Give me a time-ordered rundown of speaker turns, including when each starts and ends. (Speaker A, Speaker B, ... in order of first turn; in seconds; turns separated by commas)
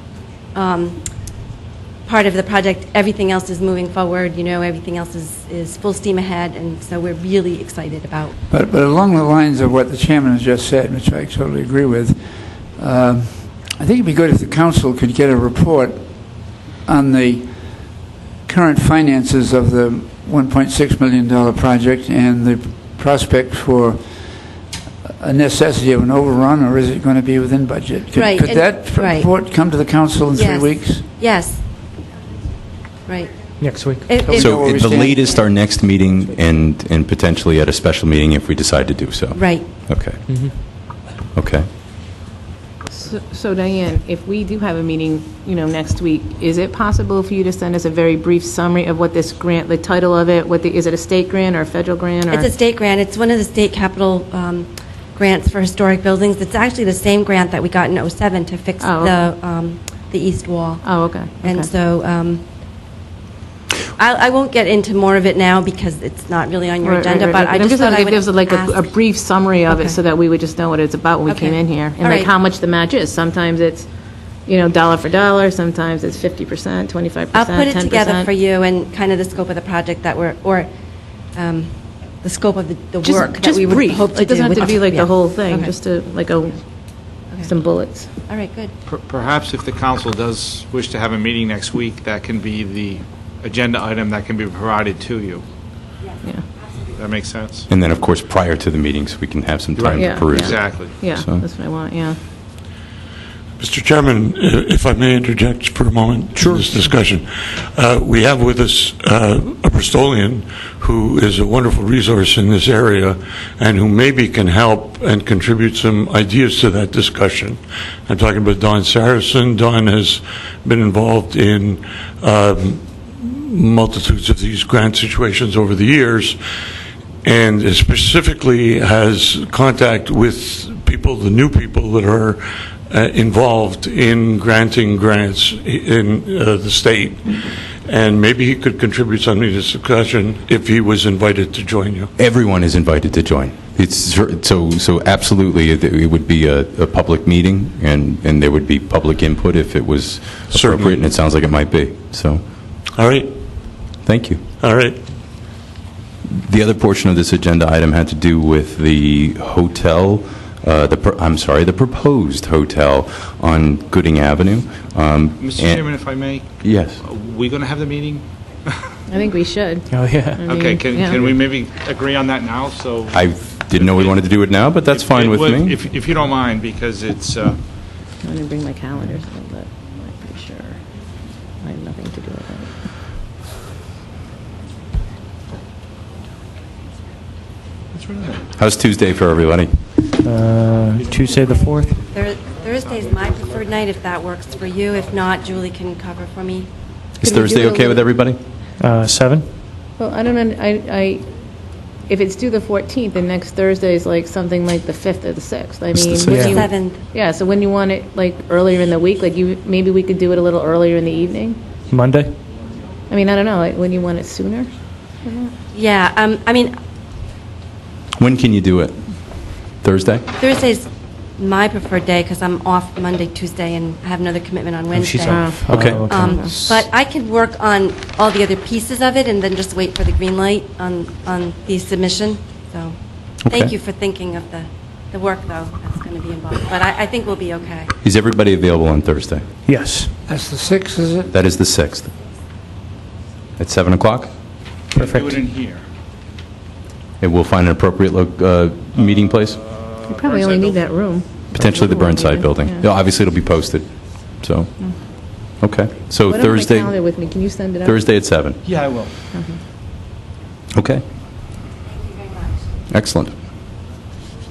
Speaker A: 0.5-1.3, Speaker A: 2.0-8.3, Speaker B: 8.5-24.5, Speaker B: 25.0-31.1, Speaker A: 28.1-29.3, Speaker A: 30.3-31.6, Speaker A: 33.0-35.4, Speaker C: 33.6-34.0, Speaker B: 34.1-35.4, Speaker D: 34.3-40.8, Speaker A: 39.3-39.7, Speaker D: 41.3-41.7, Speaker E: 42.9-52.5, Speaker A: 52.3-62.5, Speaker E: 58.8-59.2, Speaker E: 60.8-61.7, Speaker A: 63.9-68.9, Speaker E: 66.8-78.3, Speaker A: 69.7-70.0, Speaker A: 71.3-72.3, Speaker A: 77.3-80.7, Speaker A: 81.2-85.7, Speaker E: 83.0-86.6, Speaker E: 87.3-88.1, Speaker A: 88.2-88.7, Speaker F: 88.9-95.4, Speaker F: 96.9-97.6, Speaker D: 97.7-101.4, Speaker F: 99.8-101.0, Speaker E: 99.9-102.2, Speaker G: 103.6-126.4, Speaker G: 127.2-142.1, Speaker D: 142.2-152.4, Speaker G: 150.5-151.1, Speaker G: 152.9-153.3, Speaker D: 154.0-154.4, Speaker G: 154.6-155.0, Speaker D: 156.2-166.0, Speaker F: 165.4-168.2, Speaker D: 166.6-167.0, Speaker E: 169.1-171.3, Speaker C: 169.9-170.4, Speaker F: 170.4-173.2, Speaker D: 173.1-175.8, Speaker F: 173.7-174.2, Speaker F: 174.8-177.6, Speaker E: 178.2-180.8, Speaker E: 181.6-182.7, Speaker F: 188.0-188.4, Speaker D: 188.6-189.8, Speaker C: 190.2-192.0, Speaker A: 192.1-196.7, Speaker D: 197.2-198.4, Speaker E: 197.2-198.1, Speaker C: 198.8-199.5, Speaker E: 200.0-201.2, Speaker E: 202.1-211.6, Speaker D: 205.9-206.5, Speaker A: 206.3-207.0, Speaker C: 211.9-212.3, Speaker E: 213.1-214.7, Speaker E: 215.2-215.5, Speaker A: 215.7-216.8, Speaker D: 218.2-220.2, Speaker A: 220.3-237.9, Speaker C: 225.0-226.4, Speaker E: 225.2-226.5, Speaker D: 225.7-226.1, Speaker D: 238.0-239.4, Speaker C: 239.7-240.1, Speaker B: 240.3-241.3, Speaker D: 241.3-242.1, Speaker D: 243.6-244.3, Speaker F: 244.9-245.8, Speaker C: 244.9-245.3, Speaker D: 247.2-249.6, Speaker F: 249.9-250.9, Speaker E: 250.1-252.9, Speaker D: 251.5-255.0, Speaker D: 255.6-256.9, Speaker E: 256.3-258.1, Speaker D: 257.8-258.6, Speaker F: 258.6-259.1, Speaker E: 259.3-259.6, Speaker D: 260.8-261.0, Speaker D: 262.9-263.3